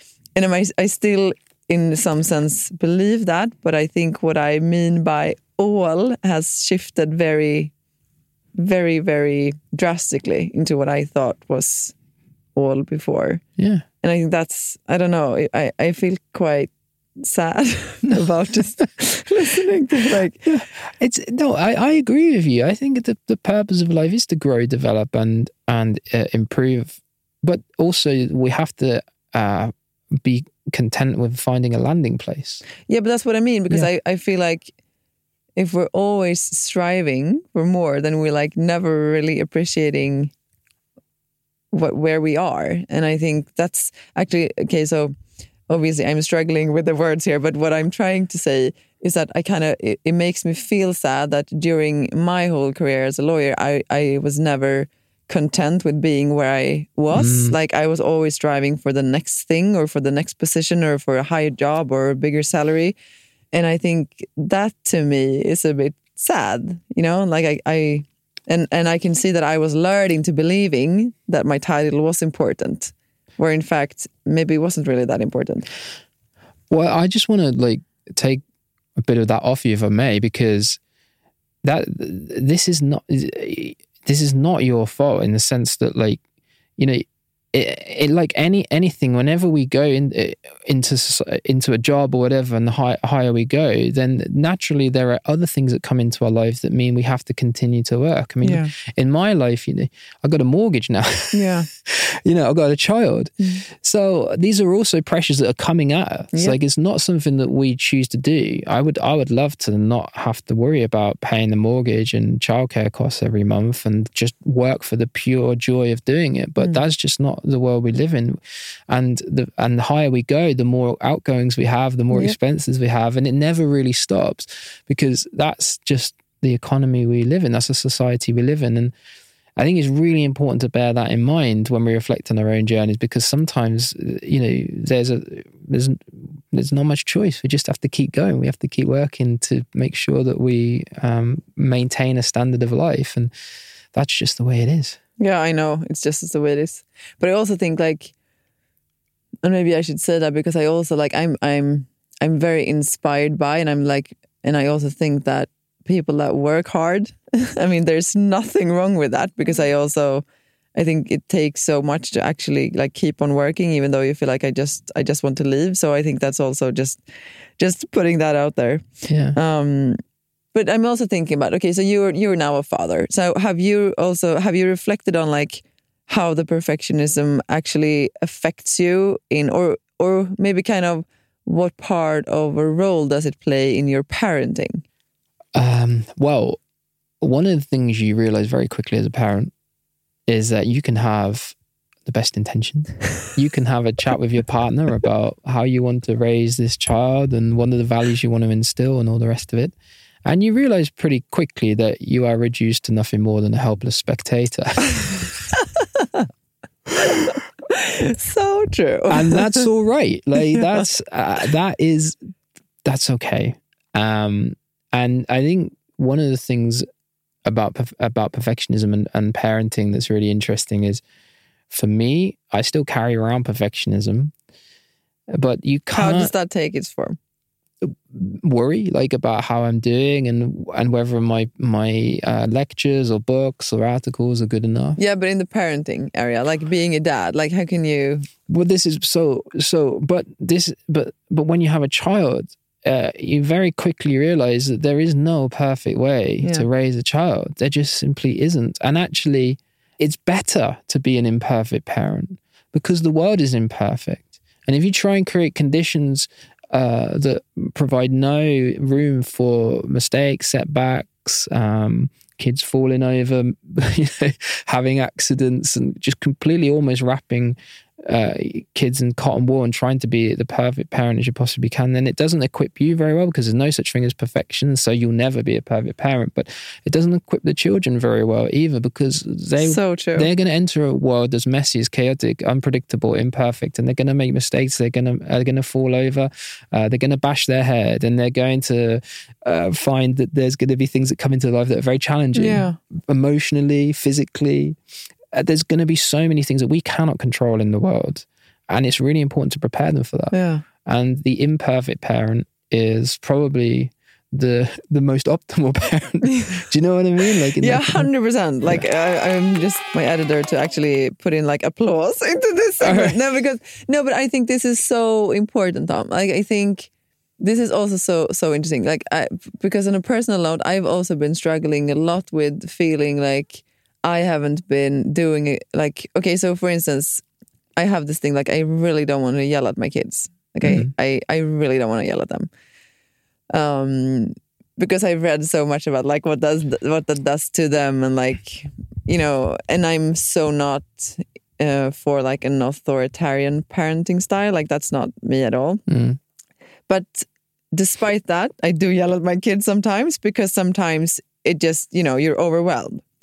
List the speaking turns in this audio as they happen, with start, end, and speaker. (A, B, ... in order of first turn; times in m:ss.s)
0:00.4-0:07.7 A
0:08.6-0:11.9 A
0:12.6-0:13.4 A
0:13.6-0:13.8 B
0:14.0-0:20.4 A
0:20.4-0:32.6 B
0:32.9-0:34.7 A
0:35.6-0:40.3 A
0:41.7-0:45.1 A
0:45.7-1:03.0 A
0:57.1-0:57.6 B
1:03.5-1:15.7 A
1:16.7-1:18.4 B
1:19.0-1:20.8 B
1:21.6-1:26.2 B
1:26.8-2:08.9 B
1:38.4-1:38.7 A
1:41.3-1:41.7 A
2:09.6-2:23.3 B
2:23.9-2:25.0 B
2:25.2-2:28.1 A
2:29.4-2:47.0 A
2:47.6-2:50.0 A
2:49.1-2:49.4 B
2:50.5-3:04.8 A
3:05.6-3:06.6 B
3:07.2-3:09.5 B
3:10.3-3:25.3 B
3:27.2-3:29.6 A
3:29.1-3:32.2 B
3:32.8-3:36.9 B
3:37.4-3:41.0 B
3:41.7-3:44.3 B
3:45.3-3:46.3 B
3:45.9-3:47.2 A
3:47.8-3:55.0 B
3:55.0-3:58.3 A
3:58.5-4:54.8 B
4:39.6-4:40.3 A
4:52.3-4:52.8 A
4:55.3-5:08.1 B
5:00.3-5:00.6 A
5:06.3-5:06.6 A
5:07.6-5:27.2 A
5:12.8-5:13.2 B
5:27.8-5:32.5 A
5:30.6-5:30.9 B
5:33.5-5:45.8 A
5:45.9-5:46.2 B
5:46.9-5:53.0 A